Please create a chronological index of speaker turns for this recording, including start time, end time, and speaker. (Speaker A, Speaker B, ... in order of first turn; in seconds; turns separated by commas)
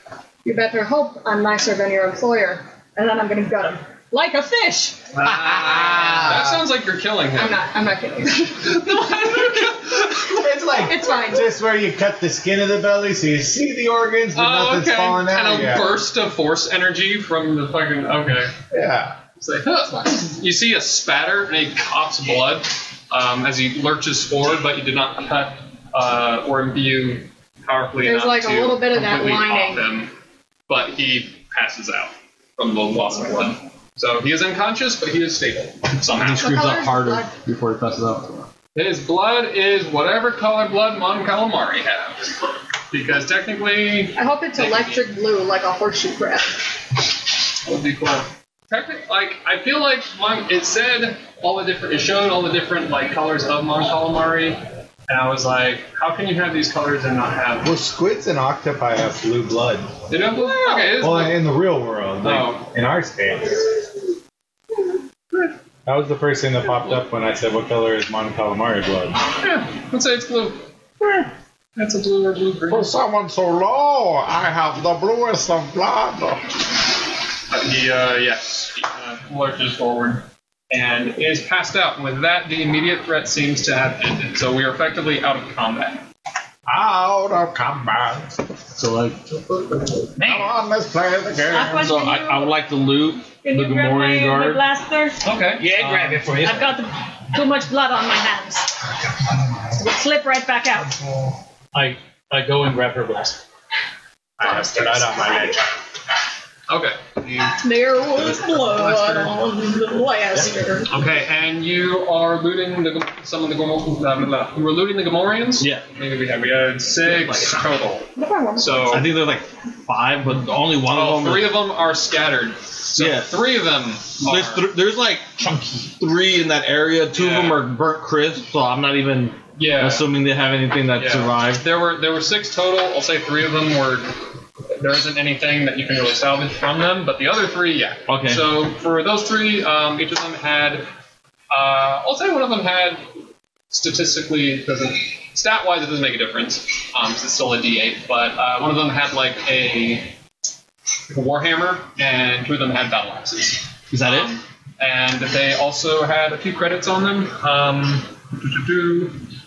Speaker A: 0.4-5.1, Speaker B: 5.1-7.6, Speaker C: 5.3-6.4, Speaker A: 7.3-11.6, Speaker B: 8.6-10.2, Speaker C: 10.2-15.9, Speaker B: 14.3-18.6, Speaker C: 18.7-19.2, Speaker B: 19.4-30.1, Speaker A: 28.0-29.9, Speaker B: 30.7-36.5, Speaker D: 36.1-38.5, Speaker A: 36.3-37.3, Speaker B: 38.7-45.0, Speaker A: 44.1-46.7, Speaker B: 47.6-57.7, Speaker C: 57.6-59.9, Speaker B: 60.1-61.4, Speaker A: 60.4-60.9, Speaker C: 61.0-64.1, Speaker B: 62.2-62.6, Speaker C: 65.8-69.2, Speaker B: 69.4-71.2, Speaker B: 71.8-73.0, Speaker C: 72.7-76.5, Speaker B: 77.5-86.0, Speaker C: 86.7-88.4, Speaker D: 88.7-90.1, Speaker E: 90.2-90.5, Speaker C: 90.2-91.9, Speaker A: 91.5-92.5, Speaker D: 91.8-94.6, Speaker A: 93.4-95.2, Speaker B: 95.2-96.3, Speaker E: 95.6-96.7, Speaker A: 96.4-98.9, Speaker A: 99.7-101.1, Speaker E: 101.7-103.4, Speaker C: 104.4-105.6, Speaker A: 104.4-105.5, Speaker B: 106.7-109.6, Speaker A: 107.6-111.0, Speaker B: 110.9-119.1, Speaker D: 115.6-115.8, Speaker D: 117.0-117.6, Speaker A: 118.1-118.9, Speaker D: 118.9-121.6, Speaker B: 120.8-124.7, Speaker D: 123.0-123.4, Speaker D: 124.2-131.6, Speaker E: 125.4-125.8, Speaker B: 127.1-127.7, Speaker B: 129.6-130.1, Speaker B: 130.9-140.9, Speaker D: 138.1-138.4, Speaker B: 141.5-143.1, Speaker B: 143.7-150.2, Speaker B: 151.1-159.2, Speaker D: 153.9-154.3